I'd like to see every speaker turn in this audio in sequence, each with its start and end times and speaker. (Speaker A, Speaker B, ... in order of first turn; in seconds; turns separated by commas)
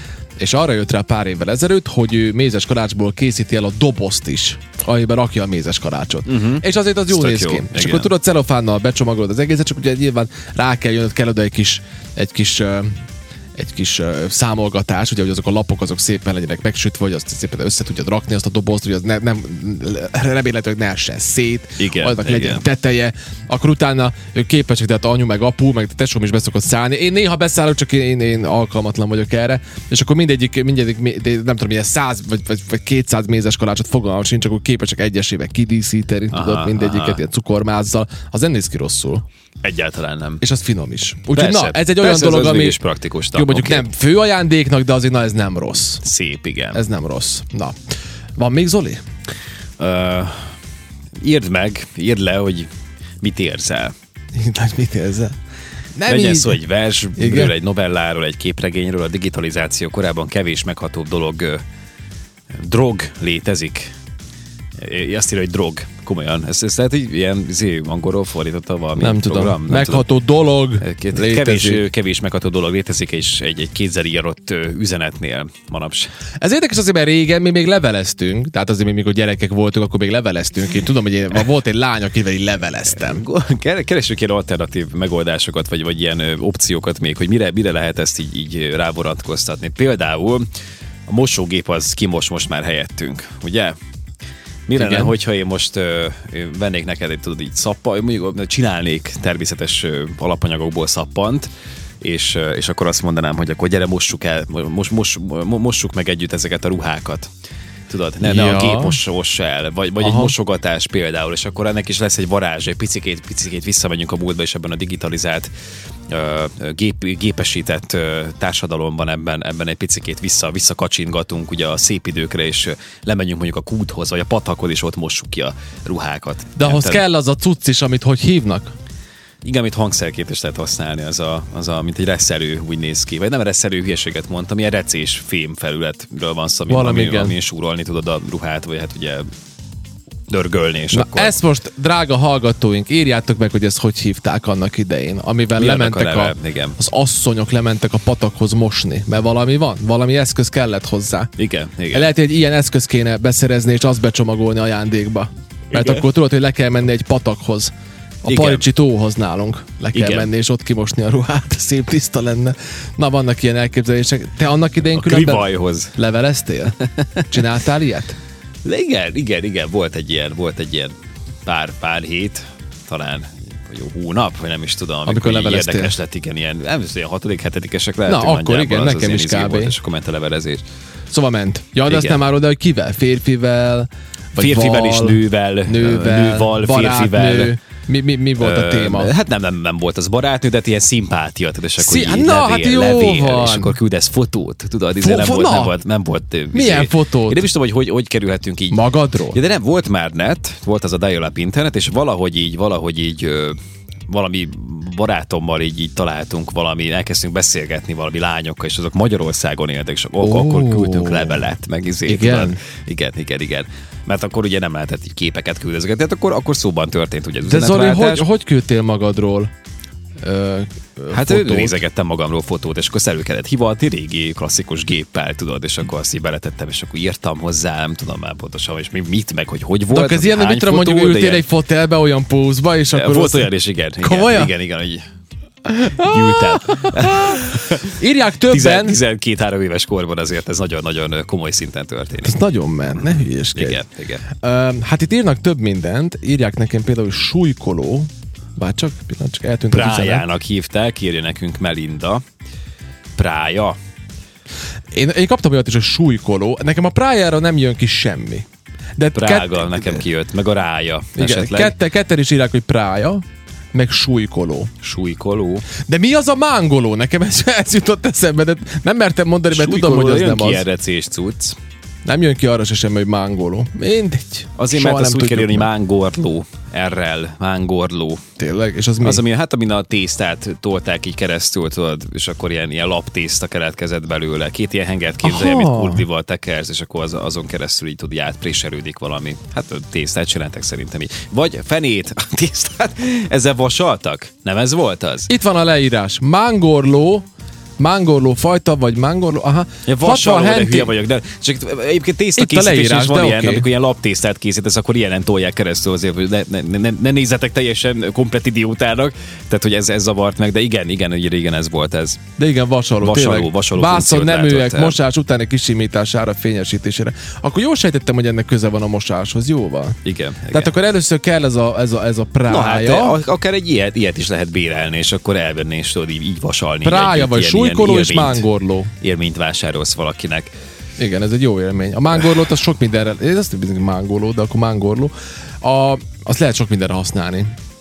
Speaker A: 0.4-12.9, Speaker B: 6.2-8.1, Speaker A: 13.6-39.2, Speaker B: 21.8-22.6, Speaker B: 36.3-37.2, Speaker B: 39.6-40.4, Speaker A: 40.4-42.8, Speaker B: 41.3-43.8, Speaker A: 43.3-46.0, Speaker B: 46.0-46.8, Speaker A: 46.7-47.8, Speaker A: 48.4-49.0, Speaker B: 49.8-50.5, Speaker B: 51.2-52.7, Speaker B: 53.2-53.9, Speaker A: 54.3-55.3, Speaker A: 56.0-56.6, Speaker B: 56.1-61.6, Speaker A: 57.1-57.5, Speaker B: 62.5-63.9, Speaker B: 64.8-70.1, Speaker A: 69.0-71.8, Speaker B: 70.8-76.1, Speaker A: 76.4-83.2, Speaker B: 82.9-90.5, Speaker B: 91.1-93.8, Speaker B: 94.7-101.5, Speaker A: 94.8-95.1, Speaker B: 102.0-107.3, Speaker B: 107.9-115.5, Speaker A: 108.2-109.0, Speaker A: 110.0-110.3, Speaker B: 116.1-127.0, Speaker A: 126.6-128.8, Speaker B: 129.4-139.3, Speaker A: 136.7-137.3, Speaker B: 140.3-141.3, Speaker A: 140.9-151.3, Speaker B: 145.6-146.8, Speaker B: 151.4-152.1, Speaker A: 151.9-157.7, Speaker B: 155.7-156.1, Speaker A: 158.2-168.2, Speaker B: 158.2-158.6, Speaker B: 159.9-160.3, Speaker B: 164.9-165.9, Speaker B: 168.6-170.9, Speaker B: 171.4-180.6, Speaker A: 175.1-175.9, Speaker A: 178.1-179.8, Speaker A: 181.1-189.1, Speaker B: 181.9-182.2, Speaker B: 184.4-187.5, Speaker B: 188.4-198.8, Speaker A: 191.8-193.7, Speaker A: 195.0-195.8, Speaker A: 196.5-197.4, Speaker A: 198.7-199.4, Speaker B: 199.3-203.6, Speaker B: 204.1-218.2, Speaker A: 210.2-211.4, Speaker A: 212.1-212.6, Speaker A: 217.5-219.5, Speaker A: 220.2-221.8, Speaker B: 221.1-231.4, Speaker A: 229.9-234.5, Speaker B: 232.9-235.0, Speaker A: 235.7-239.0, Speaker B: 236.0-237.9, Speaker B: 238.5-242.3, Speaker A: 242.2-243.8, Speaker B: 243.1-244.2, Speaker A: 244.3-250.2, Speaker B: 249.7-252.2, Speaker B: 253.2-253.8, Speaker A: 254.9-258.4, Speaker A: 259.0-260.0, Speaker B: 259.1-261.7, Speaker A: 261.2-264.7, Speaker B: 264.8-265.6, Speaker A: 265.8-270.6, Speaker B: 269.5-271.6, Speaker A: 272.1-275.7, Speaker B: 274.6-278.2, Speaker A: 278.4-279.2, Speaker B: 279.0-295.3, Speaker A: 285.2-286.0, Speaker A: 295.3-297.2, Speaker A: 297.8-300.9, Speaker B: 299.9-312.2, Speaker A: 302.4-303.7, Speaker A: 312.4-320.0, Speaker B: 313.0-315.0, Speaker B: 320.0-320.7, Speaker A: 320.5-323.2, Speaker B: 322.5-328.4, Speaker A: 326.8-328.9, Speaker B: 329.0-330.5, Speaker A: 331.0-337.5